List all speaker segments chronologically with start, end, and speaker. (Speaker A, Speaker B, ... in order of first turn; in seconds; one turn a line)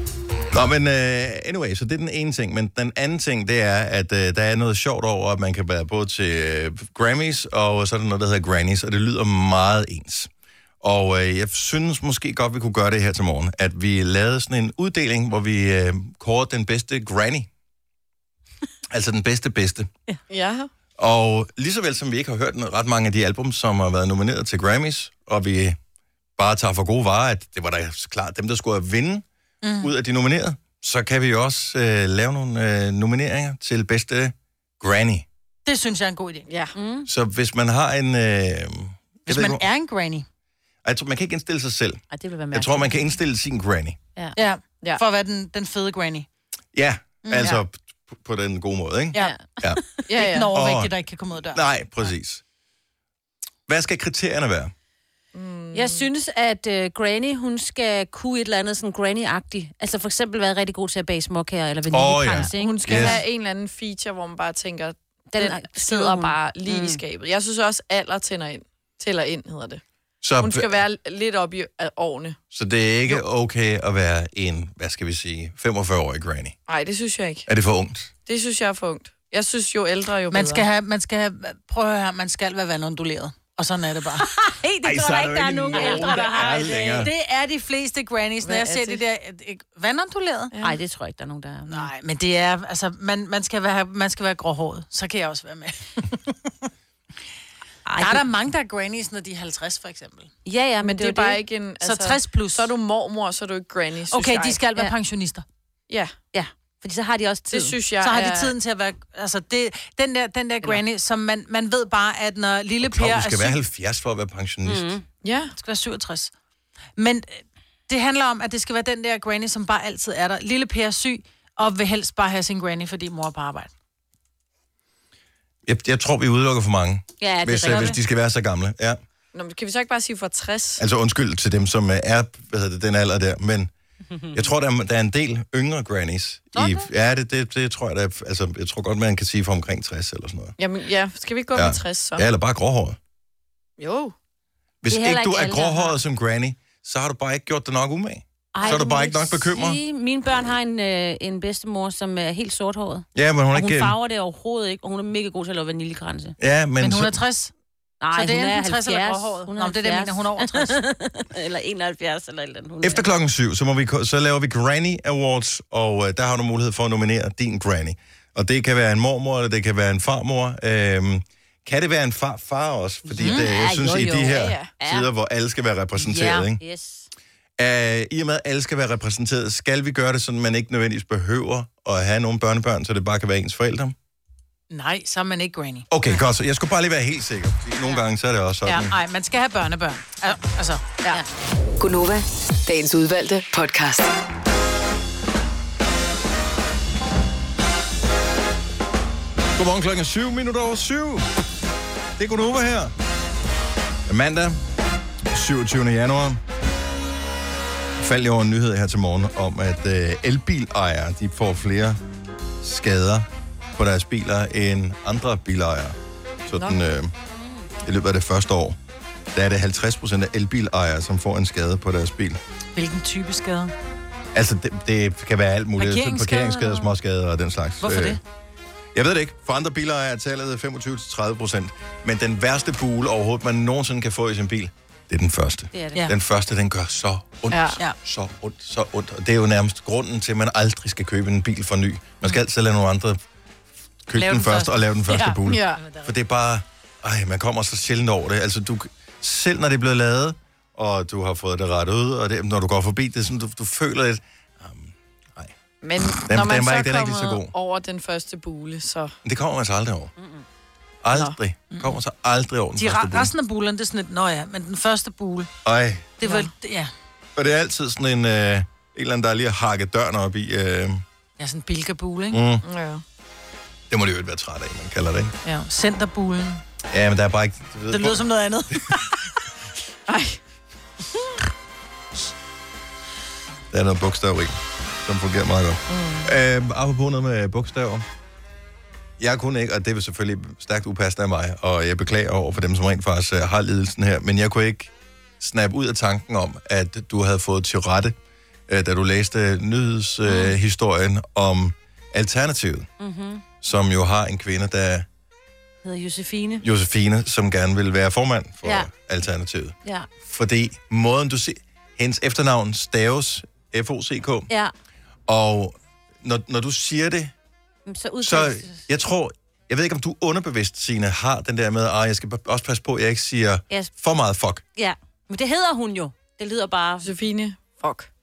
Speaker A: 0.5-10.3
Speaker A: 10.8-17.5
Speaker A: 18.9-19.9
Speaker B: 20.3-20.7
Speaker A: 21.0-25.8
Speaker A: 26.4-29.2
Speaker C: 29.6-29.9
Speaker A: 29.8-35.2
Speaker C: 35.6-36.5
Speaker B: 36.5-36.7
Speaker D: 36.7-37.1
Speaker A: 37.0-39.6
Speaker C: 39.3-40.2
Speaker A: 40.8-44.0
Speaker D: 42.1-43.1
Speaker C: 44.4-46.3
Speaker A: 46.7-49.8
Speaker C: 47.2-47.6
Speaker D: 49.2-49.4
Speaker B: 50.1-50.5
Speaker C: 50.1-51.6
Speaker A: 50.5-50.9
Speaker A: 51.5-52.4
Speaker A: 53.7-54.7
Speaker B: 55.3-56.0
Speaker D: 55.7-63.2
Speaker A: 61.9-63.2
Speaker B: 62.5-69.8
Speaker D: 65.3-67.0
Speaker A: 70.2-70.8
Speaker B: 70.4-72.4
Speaker A: 72.5-76.5
Speaker B: 76.7-77.5
Speaker A: 77.5-78.1
Speaker B: 78.2-80.6
Speaker C: 80.3-84.2
Speaker D: 84.2-87.1
Speaker A: 84.8-87.1
Speaker C: 85.8-86.1
Speaker C: 87.0-90.5
Speaker B: 88.4-89.0
Speaker B: 90.5-90.8
Speaker D: 90.6-91.9
Speaker C: 91.7-96.2
Speaker D: 97.8-98.2
Speaker C: 98.0-100.3
Speaker D: 100.5-101.4
Speaker B: 100.8-104.6
Speaker C: 101.8-102.7
Speaker C: 104.1-105.4
Speaker D: 106.3-107.8
Speaker B: 107.5-108.5
Speaker C: 108.0-113.6
Speaker A: 112.8-114.9
Speaker D: 114.6-115.0
Speaker B: 115.2-115.5
Speaker C: 115.6-116.3
Speaker C: 117.0-123.7
Speaker A: 125.7-129.0
Speaker D: 127.2-128.0
Speaker B: 129.3-130.8
Speaker A: 130.8-133.7
Speaker A: 134.3-140.5
Speaker D: 136.5-136.9
Speaker B: 140.6-142.2
Speaker A: 141.5-143.0
Speaker B: 143.8-144.1
Speaker A: 144.8-149.8
Speaker D: 144.9-146.0
Speaker D: 148.5-156.3
Speaker A: 153.1-153.9
Speaker A: 156.4-157.2
Speaker C: 156.8-157.5
Speaker D: 158.0-163.0
Speaker C: 158.1-160.8
Speaker A: 162.8-176.6
Speaker D: 173.1-175.1
Speaker C: 173.2-173.5
Speaker B: 174.2-174.7
Speaker D: 176.0-177.1
Speaker A: 177.6-183.9
Speaker C: 184.7-185.9
Speaker A: 185.9-188.9
Speaker C: 188.6-191.2
Speaker E: 191.8-194.1
Speaker A: 199.6-201.3
Speaker A: 202.2-202.9
Speaker A: 204.1-204.6
Speaker A: 205.3-206.4
Speaker A: 208.0-212.0
Speaker A: 212.6-217.1
Speaker B: 216.5-216.8
Speaker D: 217.4-217.7
Speaker A: 217.8-218.8
Speaker A: 219.3-222.4
Speaker C: 222.7-223.7
Speaker A: 224.3-228.2
Speaker C: 225.8-226.5
Speaker D: 226.6-226.9
Speaker C: 227.8-228.2
Speaker A: 228.9-243.2
Speaker D: 235.7-236.0
Speaker B: 237.5-237.8
Speaker A: 244.1-255.5
Speaker C: 244.1-246.1
Speaker B: 245.5-245.8
Speaker B: 255.8-259.1
Speaker A: 256.2-257.5
Speaker A: 259.2-260.1
Speaker D: 260.2-260.4
Speaker A: 261.0-263.3
Speaker C: 261.7-262.0
Speaker C: 262.8-265.5
Speaker A: 265.6-266.1
Speaker C: 266.2-266.9
Speaker B: 266.2-266.5
Speaker A: 267.4-271.0
Speaker C: 271.4-272.4
Speaker A: 272.3-272.6
Speaker B: 272.6-273.0
Speaker A: 273.9-275.3
Speaker C: 275.4-276.6
Speaker A: 276.9-278.3
Speaker C: 277.9-279.2
Speaker B: 280.1-280.4
Speaker A: 283.7-288.0
Speaker B: 285.9-286.3
Speaker A: 289.2-298.1
Speaker A: 298.7-302.9
Speaker D: 300.2-300.5
Speaker D: 303.0-303.4
Speaker A: 303.6-305.1
Speaker D: 305.8-306.6
Speaker A: 306.6-314.5
Speaker D: 308.6-308.9
Speaker A: 315.3-317.3
Speaker D: 317.9-318.8
Speaker A: 318.2-324.6
Speaker D: 324.8-327.1
Speaker B: 327.0-328.1